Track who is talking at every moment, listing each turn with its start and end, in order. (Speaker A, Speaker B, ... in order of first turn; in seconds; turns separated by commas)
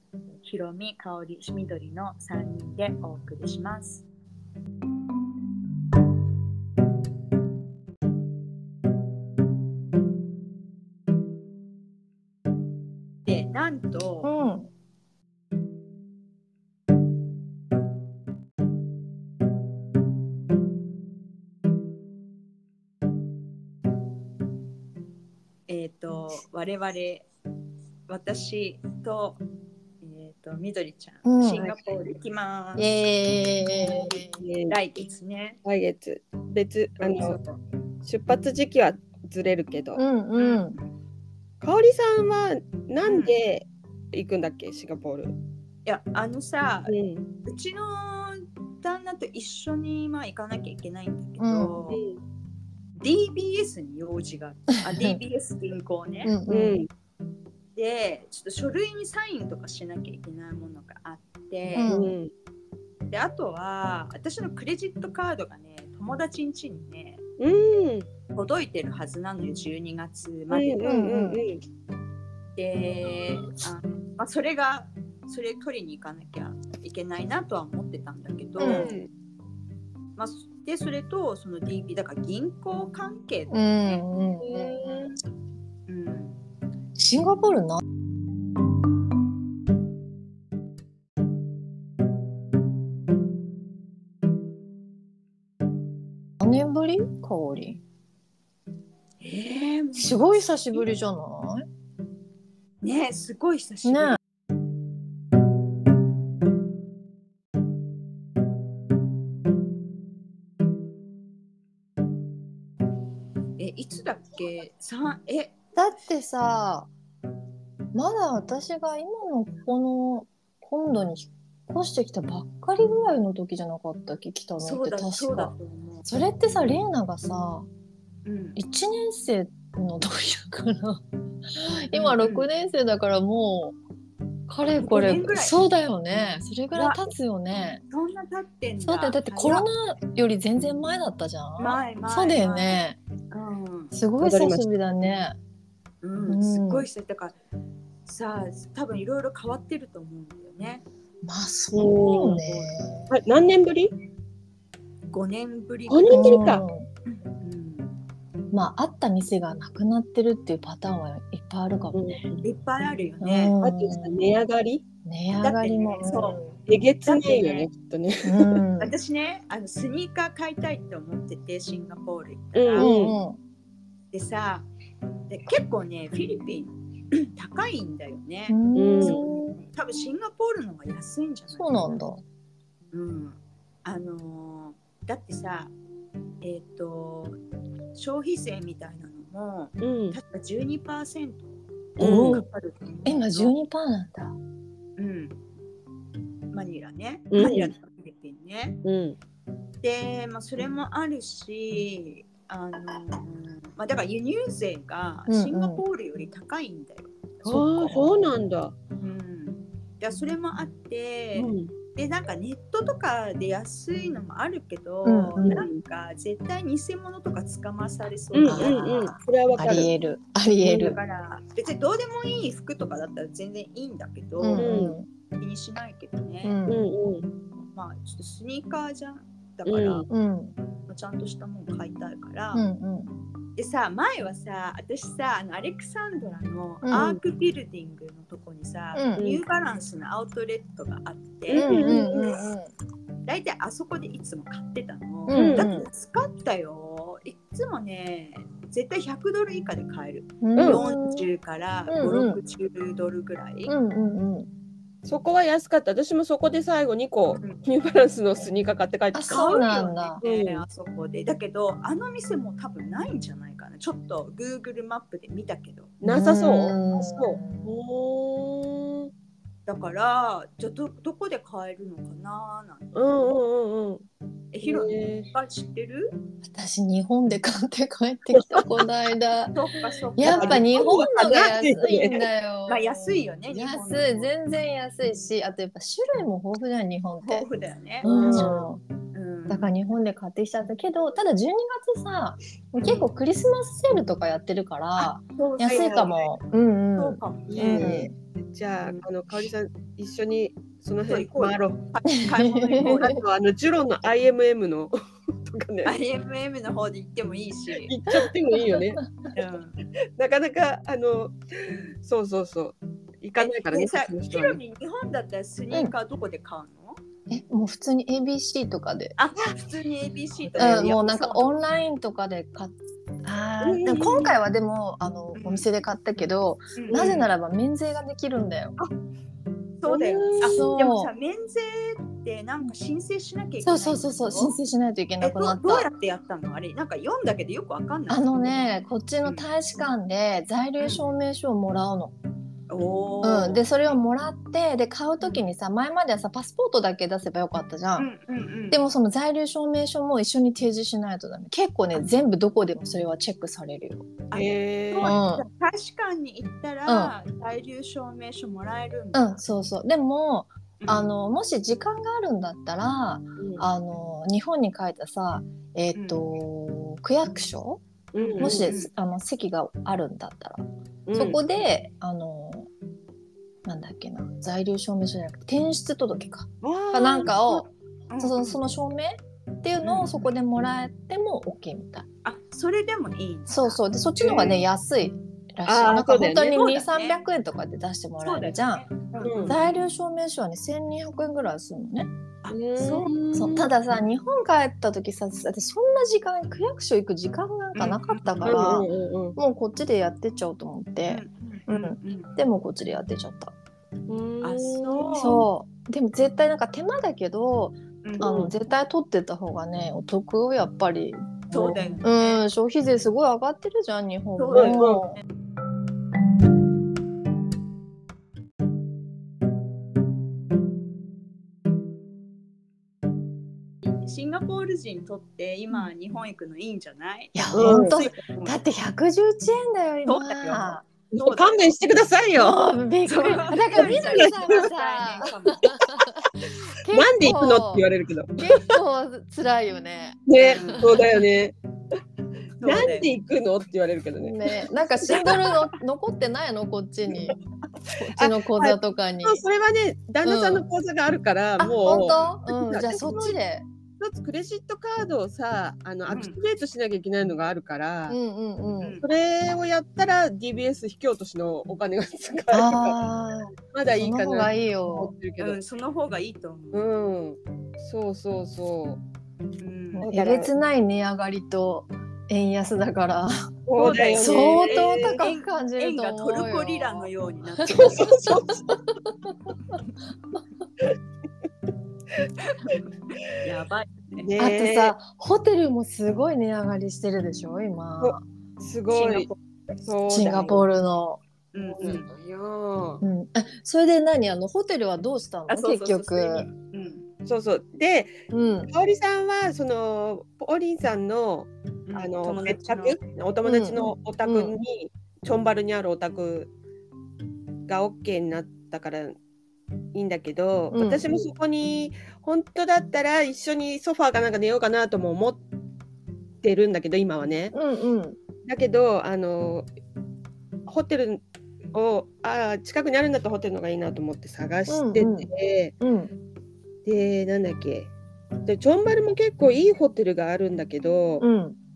Speaker A: 0.4-4.0, Speaker A: 13.2-14.5, Speaker B: 14.2-14.7, Speaker A: 25.7-27.2, Speaker A: 28.1-29.4, Speaker A: 30.0-32.9, Speaker B: 31.2-31.6, Speaker B: 32.8-34.4, Speaker C: 34.4-34.7, Speaker A: 34.7-35.6, Speaker C: 35.6-37.4, Speaker A: 37.0-37.6, Speaker C: 38.0-40.0, Speaker B: 39.9-40.8, Speaker A: 40.4-40.9, Speaker C: 41.6-45.3, Speaker A: 43.0-43.4, Speaker A: 45.9-52.0, Speaker C: 46.9-47.2, Speaker B: 51.4-51.8, Speaker C: 51.9-52.2, Speaker A: 53.0-56.3, Speaker B: 56.2-56.8, Speaker C: 56.5-56.9, Speaker A: 57.8-61.9, Speaker B: 61.7-62.1, Speaker C: 61.8-62.3, Speaker A: 63.1-67.2, Speaker C: 67.4-68.1, Speaker A: 68.3-70.9, Speaker C: 70.5-71.6, Speaker B: 70.8-71.4, Speaker A: 72.5-79.0, Speaker B: 78.6-78.9, Speaker C: 78.6-79.1, Speaker A: 80.2-84.0, Speaker B: 83.5-85.1, Speaker C: 84.4-85.1, Speaker A: 85.9-86.4, Speaker B: 87.0-87.8, Speaker B: 96.4-97.8, Speaker A: 99.2-100.9, Speaker B: 100.0-101.7, Speaker A: 102.8-104.2, Speaker B: 103.8-104.2, Speaker A: 113.6-115.5, Speaker B: 115.7-116.9, Speaker B: 117.9-125.5, Speaker A: 124.6-126.0, Speaker B: 126.0-127.7, Speaker A: 128.2-128.6, Speaker B: 128.6-133.8, Speaker A: 131.9-132.5, Speaker B: 134.5-137.8, Speaker A: 134.8-135.6, Speaker A: 136.7-137.1, Speaker A: 137.9-139.7, Speaker B: 138.8-143.0, Speaker A: 141.6-143.9, Speaker B: 143.9-145.4, Speaker C: 144.2-144.6, Speaker A: 146.0-147.3, Speaker B: 146.2-146.9, Speaker A: 148.0-150.8, Speaker B: 151.2-153.1, Speaker C: 151.7-152.4, Speaker A: 152.2-152.7, Speaker C: 153.1-153.9, Speaker A: 155.1-156.5, Speaker C: 155.9-156.7, Speaker B: 156.1-156.9, Speaker A: 157.1-157.9, Speaker B: 158.5-162.2, Speaker C: 161.9-162.4, Speaker A: 162.4-163.6, Speaker B: 163.2-164.2, Speaker C: 163.6-164.8, Speaker B: 165.0-166.5, Speaker A: 165.4-166.4, Speaker C: 166.7-168.6, Speaker A: 167.0-167.7, Speaker B: 168.2-168.9, Speaker A: 168.8-172.9, Speaker C: 172.5-173.2, Speaker B: 172.8-173.4, Speaker A: 174.1-174.7, Speaker A: 175.3-182.0, Speaker B: 178.5-179.5, Speaker C: 178.8-179.2, Speaker B: 181.5-182.2, Speaker A: 182.9-185.7, Speaker A: 186.4-187.4, Speaker A: 187.9-193.5, Speaker C: 189.8-190.2, Speaker B: 192.0-192.4, Speaker C: 192.0-192.4, Speaker B: 193.0-194.3, Speaker A: 195.0-195.3, Speaker A: 196.5-198.8, Speaker C: 197.3-197.7, Speaker B: 197.4-197.7, Speaker C: 198.8-199.2, Speaker A: 199.8-207.4, Speaker B: 205.3-205.8, Speaker C: 207.4-208.7, Speaker B: 207.4-208.3, Speaker A: 209.0-219.1, Speaker C: 211.3-211.7, Speaker B: 215.0-215.6, Speaker C: 215.4-215.8, Speaker C: 218.3-219.9, Speaker B: 218.4-221.0, Speaker A: 220.6-224.8, Speaker B: 224.4-225.1, Speaker C: 224.6-224.9, Speaker A: 225.4-226.6, Speaker B: 226.4-226.9, Speaker C: 226.7-227.3, Speaker A: 227.7-230.1, Speaker C: 229.7-230.1, Speaker B: 230.1-230.5, Speaker A: 230.9-232.6, Speaker B: 232.5-233.1, Speaker A: 233.6-242.2, Speaker B: 236.8-237.2, Speaker B: 238.9-239.2, Speaker C: 241.5-242.3, Speaker B: 241.6-242.7, Speaker A: 243.2-253.7, Speaker B: 245.3-245.9, Speaker C: 245.3-245.7, Speaker B: 250.4-251.2, Speaker B: 251.9-252.4, Speaker B: 253.7-254.5, Speaker C: 255.0-260.6, Speaker B: 259.1-260.2, Speaker A: 259.3-266.0, Speaker C: 266.0-269.1, Speaker B: 266.1-267.7, Speaker A: 269.7-273.3, Speaker C: 272.9-274.0, Speaker A: 274.5-276.2, Speaker C: 274.6-275.3, Speaker B: 276.5-279.5, Speaker C: 278.4-278.8, Speaker A: 279.5-281.1, Speaker B: 280.2-287.5, Speaker C: 280.2-282.3, Speaker A: 282.7-284.3, Speaker A: 287.2-289.7, Speaker B: 288.0-288.8, Speaker C: 288.0-288.6, Speaker B: 289.5-298.1, Speaker A: 292.8-293.1, Speaker A: 295.0-296.3, Speaker A: 297.0-297.9, Speaker C: 297.5-301.8, Speaker A: 301.0-303.2, Speaker B: 302.2-303.2, Speaker C: 302.8-305.9, Speaker A: 305.8-307.9, Speaker C: 307.8-309.0, Speaker B: 308.6-308.8, Speaker A: 309.3-309.8, Speaker C: 310.2-314.6, Speaker A: 313.4-317.0, Speaker B: 317.3-319.1, Speaker A: 319.2-321.6, Speaker B: 320.6-328.8, Speaker C: 323.6-324.3, Speaker A: 324.0-324.2, Speaker A: 325.3-325.6, Speaker A: 326.7-327.3, Speaker C: 326.9-327.2, Speaker A: 329.8-334.6, Speaker C: 329.9-330.6, Speaker B: 330.4-331.1, Speaker B: 333.6-335.9, Speaker A: 335.2-338.6, Speaker B: 338.1-342.1, Speaker A: 339.2-339.5, Speaker A: 342.7-343.6, Speaker B: 343.2-348.1, Speaker A: 347.9-348.8, Speaker B: 348.7-354.1, Speaker A: 354.3-359.4, Speaker C: 354.3-355.2, Speaker B: 355.0-355.4, Speaker B: 356.9-357.1, Speaker B: 359.1-367.8, Speaker A: 360.8-361.1, Speaker C: 363.4-363.6, Speaker A: 365.9-366.2, Speaker C: 368.1-368.7, Speaker A: 368.2-368.9, Speaker B: 368.4-370.6, Speaker C: 371.1-371.4, Speaker B: 371.1-372.7, Speaker B: 373.6-377.7, Speaker C: 376.6-377.6, Speaker A: 378.1-378.6, Speaker B: 378.2-382.1, Speaker A: 379.8-380.3, Speaker A: 382.2-383.8, Speaker B: 383.5-388.9, Speaker C: 384.2-384.6, Speaker C: 385.6-386.6, Speaker A: 386.5-387.2, Speaker A: 388.2-389.9, Speaker C: 389.2-389.6, Speaker B: 389.4-392.1, Speaker A: 392.4-393.1, Speaker C: 392.5-393.7, Speaker B: 393.3-403.5, Speaker A: 397.7-398.7, Speaker C: 398.4-399.4, Speaker A: 401.1-402.3, Speaker C: 404.1-405.4, Speaker A: 404.4-405.5, Speaker B: 405.1-411.4, Speaker A: 408.0-408.4, Speaker C: 408.2-408.5, Speaker A: 411.5-412.4, Speaker B: 412.0-415.2, Speaker A: 414.4-415.2, Speaker C: 414.5-415.0, Speaker A: 423.8-428.6, Speaker B: 427.3-430.9, Speaker C: 427.5-428.0, Speaker A: 430.1-431.6, Speaker C: 431.1-432.7, Speaker B: 432.3-437.9, Speaker A: 433.1-435.8, Speaker C: 433.8-434.7, Speaker C: 436.9-438.8, Speaker B: 438.4-441.1, Speaker C: 440.3-441.5, Speaker A: 440.4-440.9, Speaker A: 442.6-443.1, Speaker C: 442.6-445.6, Speaker B: 444.2-447.4, Speaker B: 447.9-449.4, Speaker C: 448.1-453.4, Speaker B: 450.2-450.6, Speaker B: 451.6-453.6, Speaker C: 454.0-458.1, Speaker A: 456.1-456.4, Speaker B: 458.1-459.0, Speaker C: 459.0-463.0, Speaker B: 462.5-465.1, Speaker C: 463.7-465.6, Speaker A: 465.4-466.8, Speaker C: 466.7-469.0, Speaker A: 469.6-470.1, Speaker B: 469.9-473.5, Speaker C: 470.1-470.5, Speaker C: 473.7-475.2, Speaker A: 473.8-478.1, Speaker B: 474.1-479.3, Speaker C: 477.7-478.8, Speaker A: 483.4-484.3, Speaker C: 484.2-484.9, Speaker B: 484.4-488.2, Speaker C: 488.0-489.3, Speaker A: 488.9-489.4, Speaker C: 489.9-490.6, Speaker B: 490.1-491.2, Speaker A: 491.5-492.1, Speaker C: 491.8-493.0, Speaker B: 493.0-496.5, Speaker A: 495.5-497.1, Speaker C: 497.2-498.1, Speaker B: 498.3-498.7, Speaker C: 498.7-506.5, Speaker A: 501.9-503.0, Speaker B: 503.4-504.6, Speaker C: 507.7-509.2, Speaker C: 509.9-515.4, Speaker B: 510.7-511.1, Speaker C: 516.4-517.5, Speaker B: 517.5-518.2, Speaker C: 518.4-519.7, Speaker C: 520.7-521.2, Speaker C: 521.7-525.7, Speaker B: 524.7-525.3, Speaker B: 525.8-526.1, Speaker C: 526.9-527.9, Speaker C: 528.5-531.2, Speaker B: 531.2-531.6